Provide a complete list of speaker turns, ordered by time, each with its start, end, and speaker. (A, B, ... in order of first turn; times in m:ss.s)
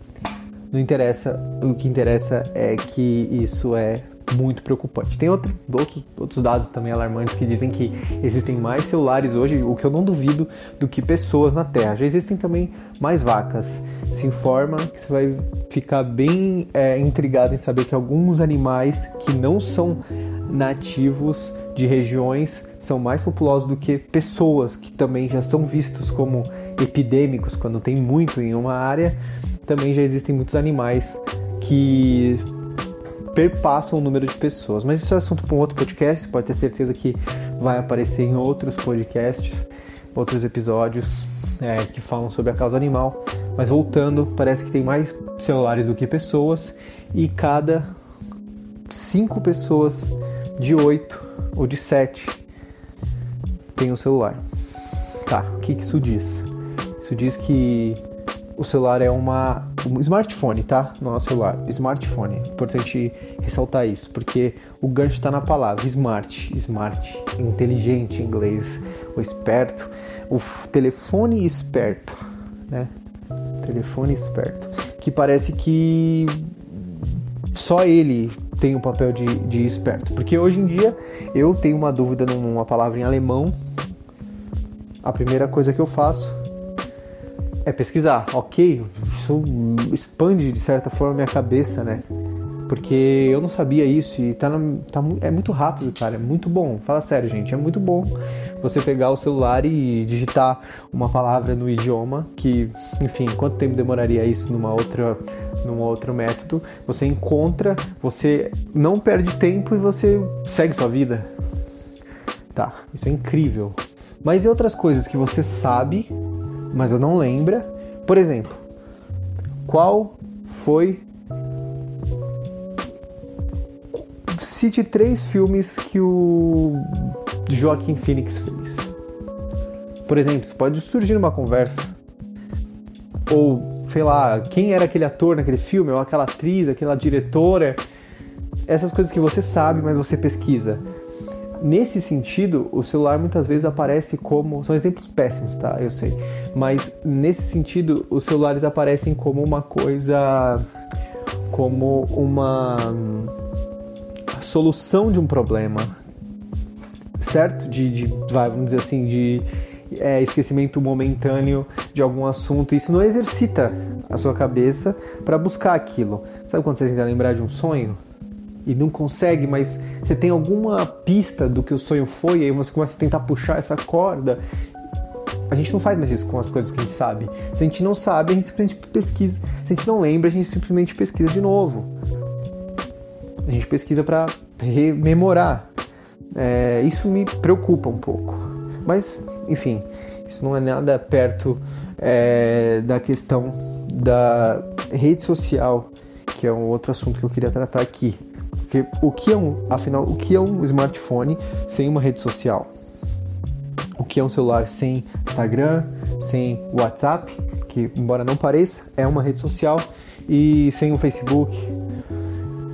0:00.7-0:32.4 A
0:33.3-0:47.9 A
0:48.9-0:52.4 A
0:53.8-0:54.4 A
0:55.3-0:56.5 A
0:57.0-0:58.0 A
0:58.6-1:12.9 A
1:13.6-1:23.6 A
1:25.0-1:26.4 A
1:27.6-1:32.0 A
1:32.7-1:51.3 A
1:52.5-1:56.1 A
1:56.7-1:58.6 A
1:59.6-2:01.0 A
2:04.3-2:08.9 A
2:10.1-2:12.0 A
2:13.3-2:17.8 A
2:18.7-2:20.8 A
2:21.6-2:30.6 A
2:31.5-2:33.3 A
2:34.3-2:36.0 A
2:37.2-2:48.0 A
2:48.6-2:54.4 A
2:55.5-3:01.9 A
3:03.5-3:05.7 A
3:06.3-3:22.7 A
3:24.0-3:31.7 A